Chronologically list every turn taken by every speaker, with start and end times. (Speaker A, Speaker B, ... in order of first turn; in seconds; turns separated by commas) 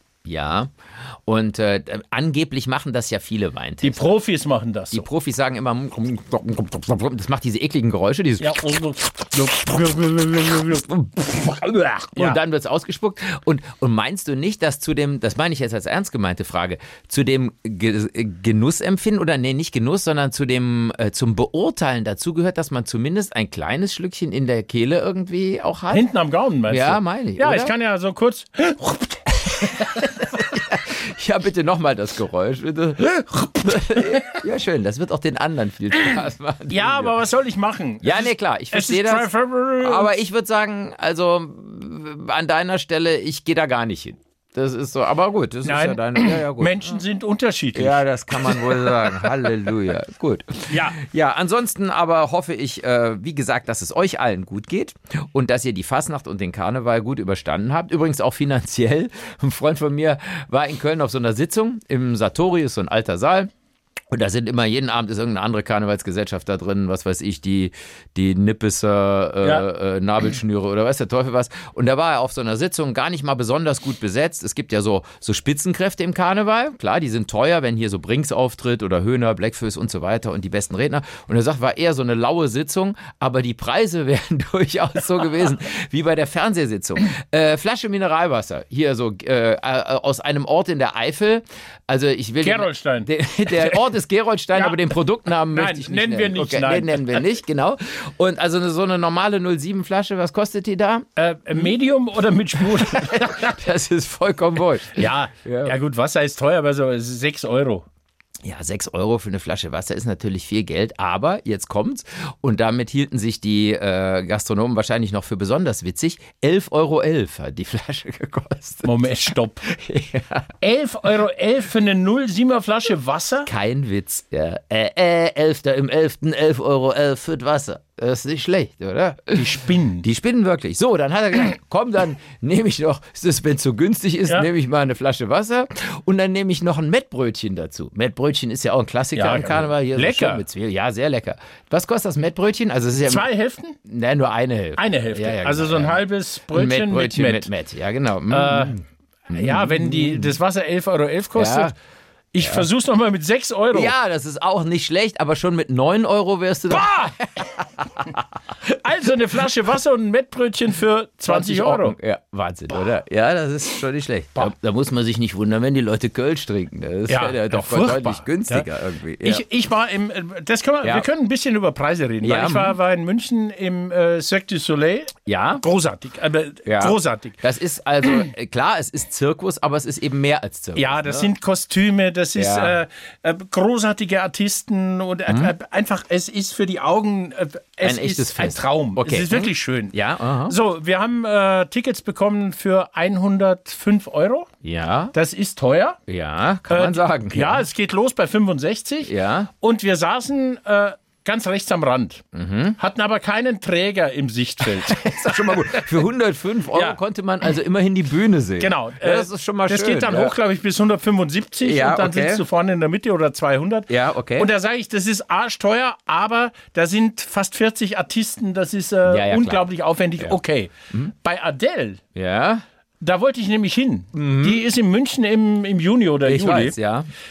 Speaker A: 0.2-0.7, Speaker A: 1.2-4.1, Speaker B: 3.8-5.0, Speaker A: 4.9-8.7, Speaker B: 8.4-10.9, Speaker A: 9.6-26.1, Speaker B: 12.1-12.4, Speaker B: 25.9-30.3, Speaker A: 26.7-27.7, Speaker A: 29.7-37.2, Speaker B: 33.3-34.4, Speaker B: 36.7-40.1, Speaker A: 38.0-46.9, Speaker B: 45.6-49.5, Speaker A: 47.7-63.5, Speaker B: 50.7-51.0, Speaker A: 64.1-101.7, Speaker B: 92.4-93.8, Speaker B: 94.5-94.8, Speaker B: 95.5-97.2, Speaker B: 101.2-103.6, Speaker A: 102.6-105.7, Speaker B: 104.9-107.8, Speaker A: 108.4-119.1, Speaker B: 118.8-119.7, Speaker A: 119.7-120.5, Speaker B: 120.6-123.5, Speaker A: 123.5-143.3, Speaker B: 129.3-130.1, Speaker B: 139.1-140.4, Speaker B: 143.1-143.8, Speaker A: 143.8-146.0, Speaker B: 144.8-147.5, Speaker A: 146.5-150.3, Speaker B: 148.3-148.7, Speaker B: 149.3-151.8, Speaker A: 151.3-151.7, Speaker B: 152.3-153.9, Speaker A: 152.4-152.7, Speaker A: 153.7-158.2, Speaker B: 156.7-157.5, Speaker B: 158.6-161.9, Speaker A: 161.3-169.4, Speaker B: 167.1-168.7, Speaker B: 169.2-177.4, Speaker A: 172.2-172.8, Speaker A: 175.3-175.6, Speaker A: 176.7-181.3, Speaker B: 180.7-189.9, Speaker A: 182.3-182.8, Speaker A: 187.8-190.6, Speaker B: 190.4-194.5, Speaker A: 194.6-195.1, Speaker B: 195.1-196.0, Speaker A: 196.1-197.6, Speaker B: 196.7-202.2, Speaker A: 199.1-199.5, Speaker A: 202.3-202.8, Speaker B: 202.8-205.9, Speaker A: 204.6-210.3, Speaker B: 206.7-207.0, Speaker B: 208.6-222.0, Speaker A: 211.6-212.4, Speaker A: 213.9-214.5, Speaker A: 219.1-219.6, Speaker A: 222.1-222.6, Speaker B: 223.0-226.8, Speaker A: 224.1-224.6, Speaker A: 226.2-227.1